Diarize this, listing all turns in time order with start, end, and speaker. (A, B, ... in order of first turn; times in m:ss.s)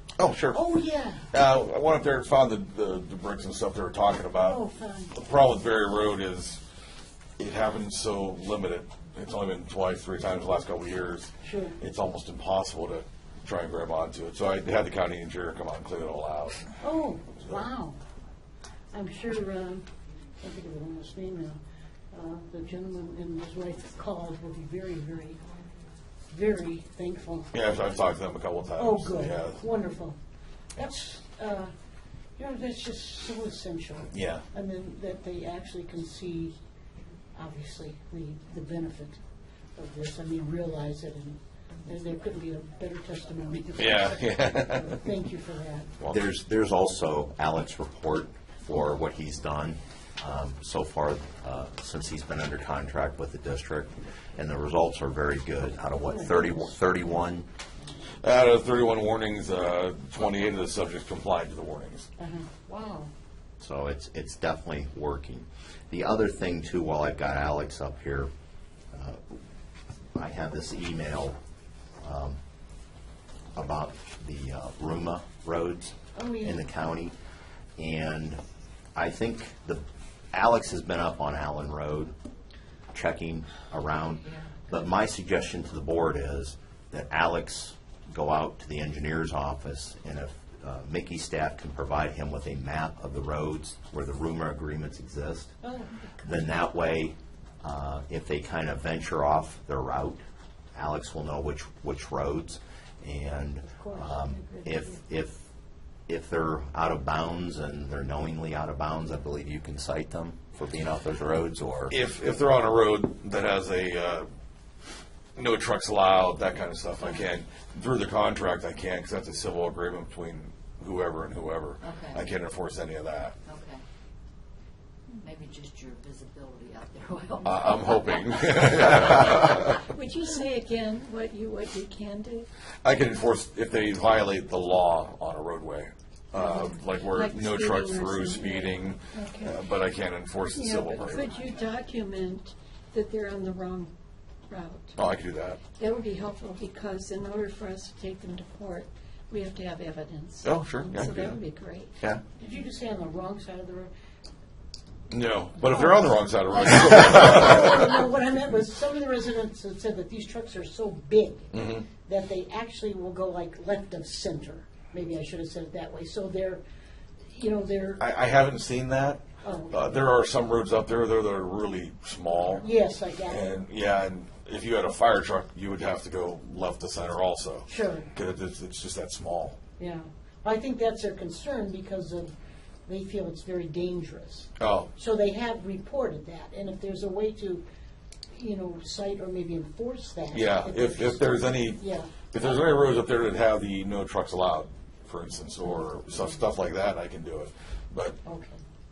0:00.2-0:00.6 A
0:00.5-0:01.2 B
0:01.3-0:04.6 A
0:04.4-0:05.1 B
0:05.1-0:06.6 A
0:07.4-0:16.6 A
0:11.4-0:11.8 B
0:16.8-0:18.0 B
0:18.9-0:19.9 B
0:20.4-0:21.6 B
0:22.1-0:25.4 B
0:26.3-0:27.5 B
0:27.5-0:29.6 A
0:28.8-0:30.2 B
0:30.8-0:31.7 B
0:32.4-0:36.5 B
0:34.1-0:34.4 A
0:37.4-0:39.2 B
0:39.8-0:45.9 B
0:43.8-0:45.0 A
0:46.1-0:57.5 C
0:56.1-0:56.6 B
0:58.2-1:02.1 A
1:02.2-1:03.1 B
1:03.6-1:08.3 C
1:08.9-1:09.4 C
1:10.1-1:11.4 C
1:12.0-1:12.4 C
1:13.5-1:17.2 C
1:16.2-1:16.6 B
1:17.8-1:18.4 C
1:18.9-1:22.1 C
1:22.9-1:35.5 C
1:35.6-1:35.9 B
1:36.2-1:40.2 C
1:40.7-1:45.5 C
1:43.7-1:45.0 B
1:46.1-1:51.9 C
1:51.9-1:54.3 A
1:55.4-2:03.4 A
2:01.8-2:02.2 D
2:03.4-2:03.8 D
2:05.2-2:09.1 D
2:07.4-2:09.9 A
2:09.6-2:12.5 E
2:12.8-2:21.4 A
2:16.4-2:19.6 E
2:20.5-2:23.9 E
2:24.5-2:25.0 E
2:25.0-2:25.6 A
2:25.7-2:31.9 E
2:30.4-2:31.4 A
2:32.4-2:33.9 B
2:35.1-2:38.0 A
2:35.7-2:46.6 B
2:41.5-2:41.8 A
2:47.3-2:48.0 B
2:48.0-2:52.6 A
2:49.4-2:49.9 B
2:52.6-2:53.5 B
2:53.3-2:59.6 A
2:57.7-2:58.1 B
2:59.8-3:02.3 B
3:02.9-3:07.6 B
3:04.6-3:04.9 A
3:08.3-3:12.3 B
3:10.3-3:18.2 A
3:18.2-3:18.6 B